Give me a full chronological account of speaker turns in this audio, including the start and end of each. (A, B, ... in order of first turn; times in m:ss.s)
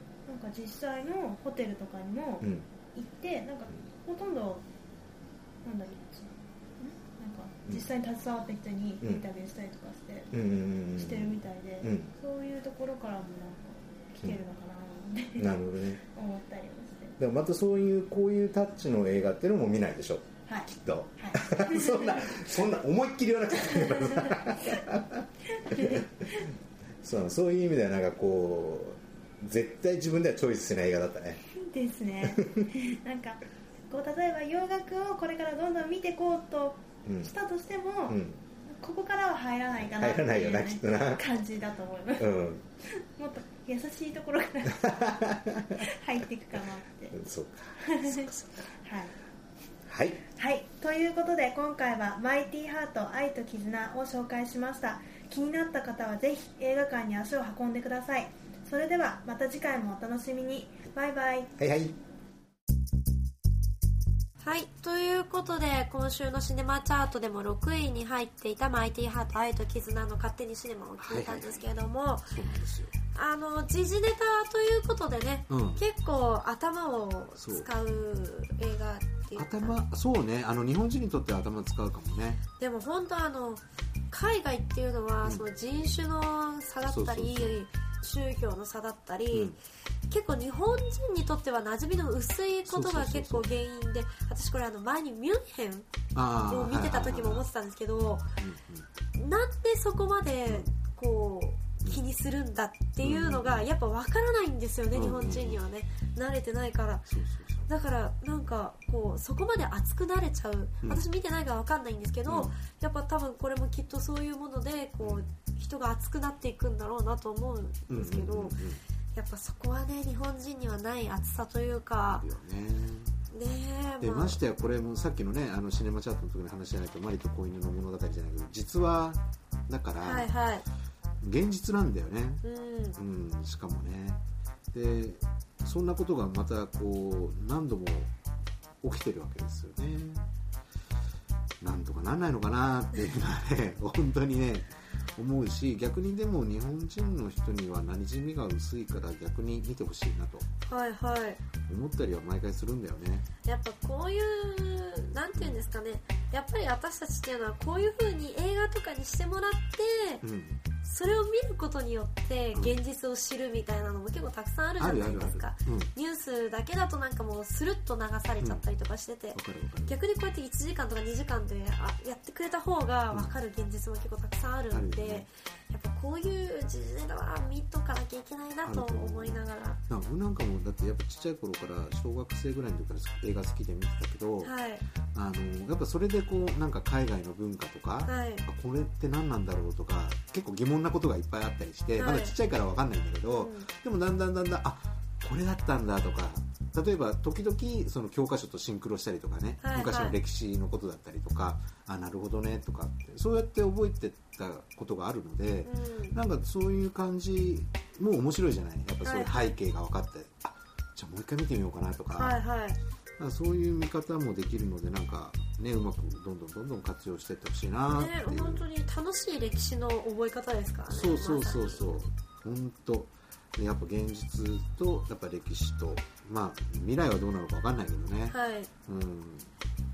0:00.3-0:04.6 A
0:02.4-0:02.7 B
0:05.6-0:17.2 A
0:10.3-0:12.1 B
0:15.4-0:16.0 B
0:17.2-0:26.5 B
0:20.5-0:22.4 A
0:23.6-0:24.6 A
0:25.5-0:26.5 A
0:27.0-0:31.4 B
0:31.5-0:42.3 A
0:32.2-0:32.7 B
0:37.0-0:37.3 B
0:38.1-0:38.4 B
0:39.8-0:41.2 B
0:42.2-0:42.6 B
0:42.9-0:47.2 A
0:44.7-0:45.9 B
0:47.1-0:48.7 B
0:47.8-0:49.2 A
0:49.9-0:50.2 B
0:50.4-1:01.5 A
1:01.6-1:02.0 B
1:04.4-1:12.3 C
1:11.0-1:11.6 B
1:12.3-1:12.9 B
1:13.1-1:19.8 C
1:15.5-1:15.8 B
1:17.4-1:17.7 B
1:19.4-1:22.4 B
1:22.6-1:29.6 C
1:26.8-1:27.6 B
1:29.3-1:29.6 B
1:30.1-1:35.9 C
1:32.6-1:33.5 B
1:36.1-1:37.5 B
1:36.5-1:38.3 C
1:38.4-1:38.9 B
1:39.2-1:47.1 C
1:43.0-1:43.7 B
1:44.9-1:45.6 B
1:47.1-1:47.7 B
1:47.7-1:58.6 C
1:52.3-1:52.6 B
1:55.0-1:55.3 B
1:57.9-1:58.8 B
1:59.2-2:02.2 C
2:02.1-2:03.1 B
2:03.3-2:04.4 C
2:04.0-2:10.3 B
2:10.0-2:10.6 C
2:11.2-2:12.4 B
2:12.4-2:13.0 C
2:13.0-2:14.2 B
2:14.7-2:18.1 B
2:18.8-2:20.3 B
2:21.6-2:30.5 B
2:30.7-2:31.4 C
2:31.6-2:33.3 B
2:33.4-2:40.2 C
2:40.2-2:40.6 B
2:40.8-2:59.8 C
2:42.5-2:42.8 B
2:44.8-2:45.9 B
2:49.4-2:50.0 B
2:54.7-2:55.3 B
2:58.6-3:04.5 B
3:04.4-3:04.8 C
3:05.1-3:32.4 B
3:08.0-3:08.4 C
3:12.0-3:12.3 C
3:13.3-3:13.7 C
3:19.6-3:20.2 C
3:25.6-3:26.2 C
3:29.0-3:29.4 C
3:32.2-3:32.8 C
3:33.2-3:38.6 B
3:37.9-3:42.0 C
3:40.9-3:49.5 B
3:48.3-3:48.7 C